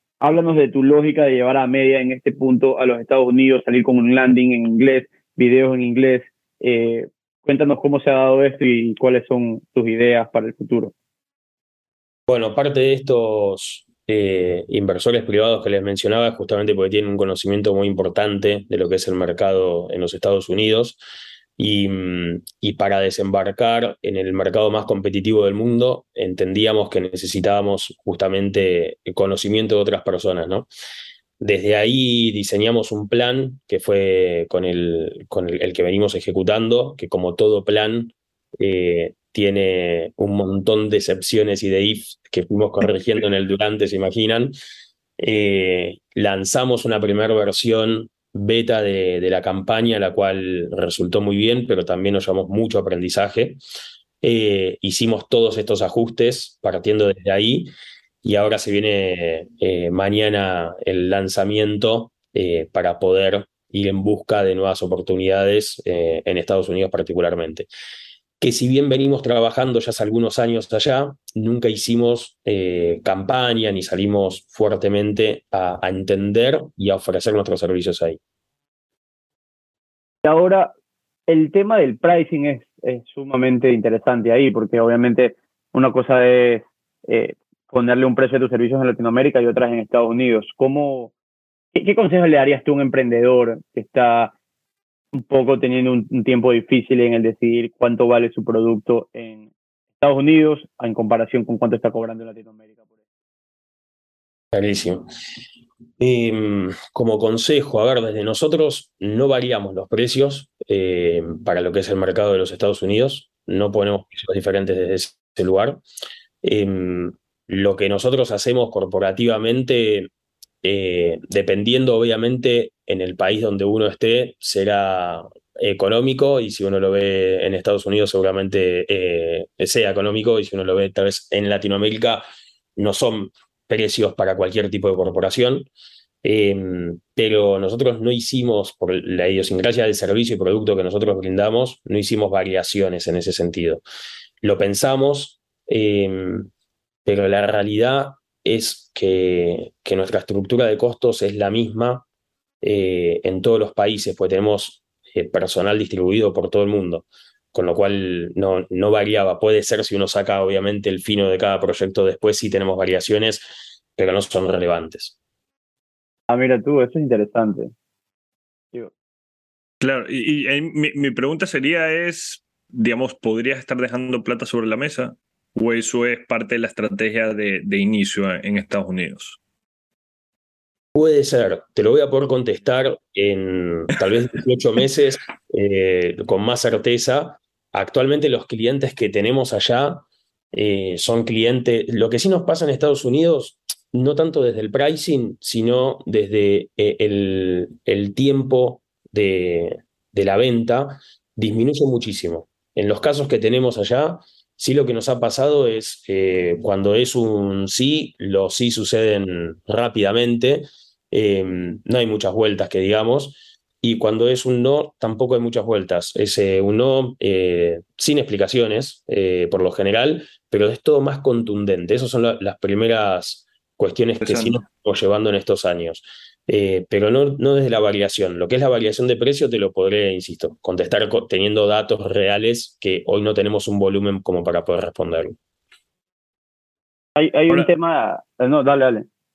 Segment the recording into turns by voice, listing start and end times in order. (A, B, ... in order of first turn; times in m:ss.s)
0:00.2-0:10.9 A
0:12.3-0:21.0 B
0:21.6-0:30.7 B
0:31.4-0:44.5 B
0:45.2-0:53.6 B
0:54.2-0:57.7 B
0:58.2-1:07.7 B
1:08.4-1:18.2 B
1:20.2-1:20.7 A
1:21.3-1:31.1 A
1:31.7-1:34.3 A
1:35.1-1:42.9 A
1:44.5-1:45.0 B
1:46.0-1:55.8 B
1:56.4-2:00.1 B
2:00.6-2:12.2 B
2:12.8-2:15.7 B
2:16.2-2:23.8 B
2:24.4-2:26.5 B
2:27.0-2:32.0 B
2:32.6-2:45.2 B
2:46.3-2:47.7 A
2:49.8-2:59.4 C
3:00.9-3:55.4 B
3:44.2-3:44.6 C
3:57.2-3:59.0 A